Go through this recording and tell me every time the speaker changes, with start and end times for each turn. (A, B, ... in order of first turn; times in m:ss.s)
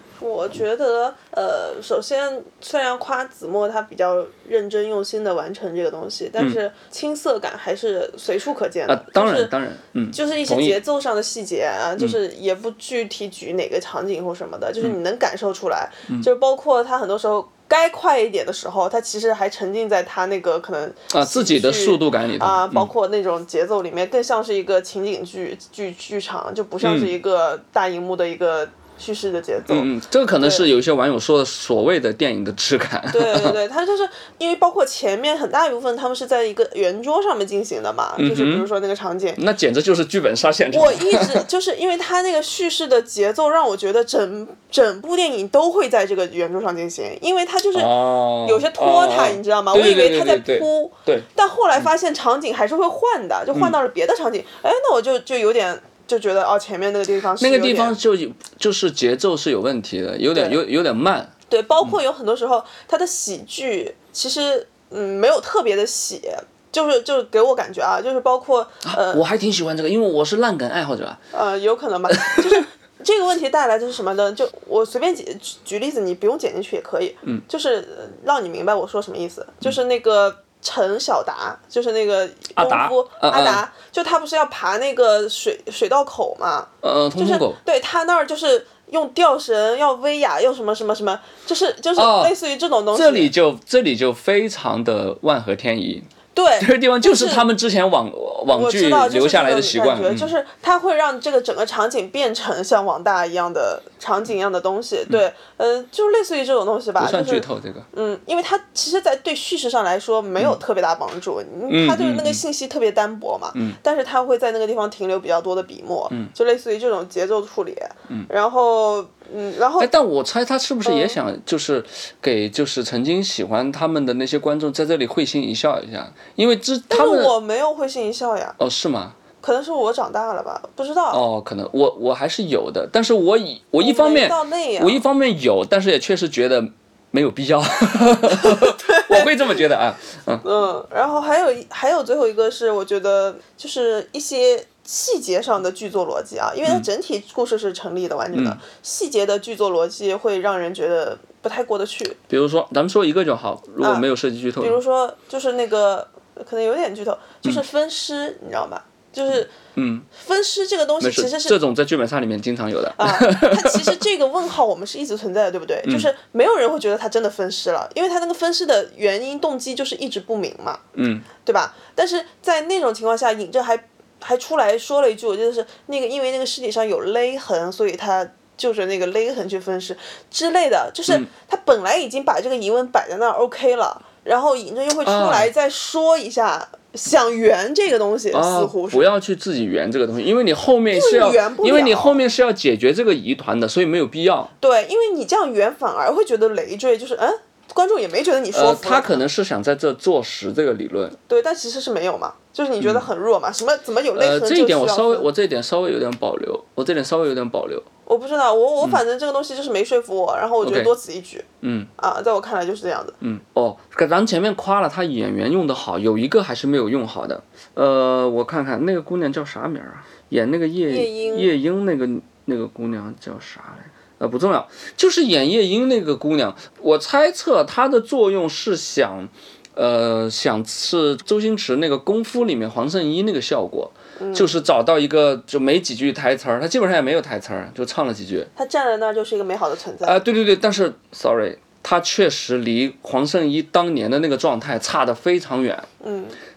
0:00.2-0:09.5 A
0:08.9-0:10.8 B
0:10.1-0:29.9 A
0:21.1-0:22.9 B
0:26.8-0:27.1 B
0:29.7-0:33.6 B
0:30.4-0:30.7 A
0:33.1-0:39.4 A
0:38.2-0:38.7 B
0:39.4-0:41.4 B
0:40.7-0:58.0 A
0:47.8-0:51.3 B
0:57.4-1:01.3 B
1:00.3-1:00.6 A
1:01.5-1:09.2 A
1:08.9-1:11.2 B
1:11.3-1:33.3 A
1:12.1-1:12.6 B
1:22.6-1:23.6 B
1:26.8-1:27.6 B
1:32.0-1:32.4 B
1:32.9-1:40.3 B
1:36.3-1:37.5 A
1:38.5-1:59.9 A
1:47.0-1:47.9 B
1:51.7-1:52.4 B
1:59.8-2:07.4 B
2:00.8-2:01.2 A
2:06.9-2:08.6 A
2:08.6-2:09.2 B
2:09.4-2:11.2 A
2:11.1-2:20.4 B
2:13.8-2:15.0 A
2:18.3-2:19.6 A
2:20.4-2:32.2 A
2:28.3-2:28.6 B
2:32.3-2:34.8 B
2:33.8-2:34.1 A
2:34.6-2:39.5 A
2:39.8-2:40.1 B
2:40.1-2:41.6 A
2:41.0-2:44.0 B
2:43.0-2:50.8 A
2:51.0-2:51.3 B
2:51.4-3:09.1 A
3:05.0-3:05.5 B
3:08.3-3:14.5 B
3:10.9-3:12.2 A
3:14.6-3:19.2 A
3:18.5-3:21.2 B
3:21.3-3:25.3 A
3:22.8-3:23.1 B
3:24.2-3:27.9 B
3:28.1-3:31.5 A
3:30.6-3:30.9 B
3:31.6-3:31.9 B
3:32.0-3:33.2 A
3:33.2-3:58.5 B
3:40.9-3:41.5 A
3:54.2-3:54.6 A
3:58.6-4:00.2 A
4:00.0-4:05.9 B
4:06.0-4:06.4 A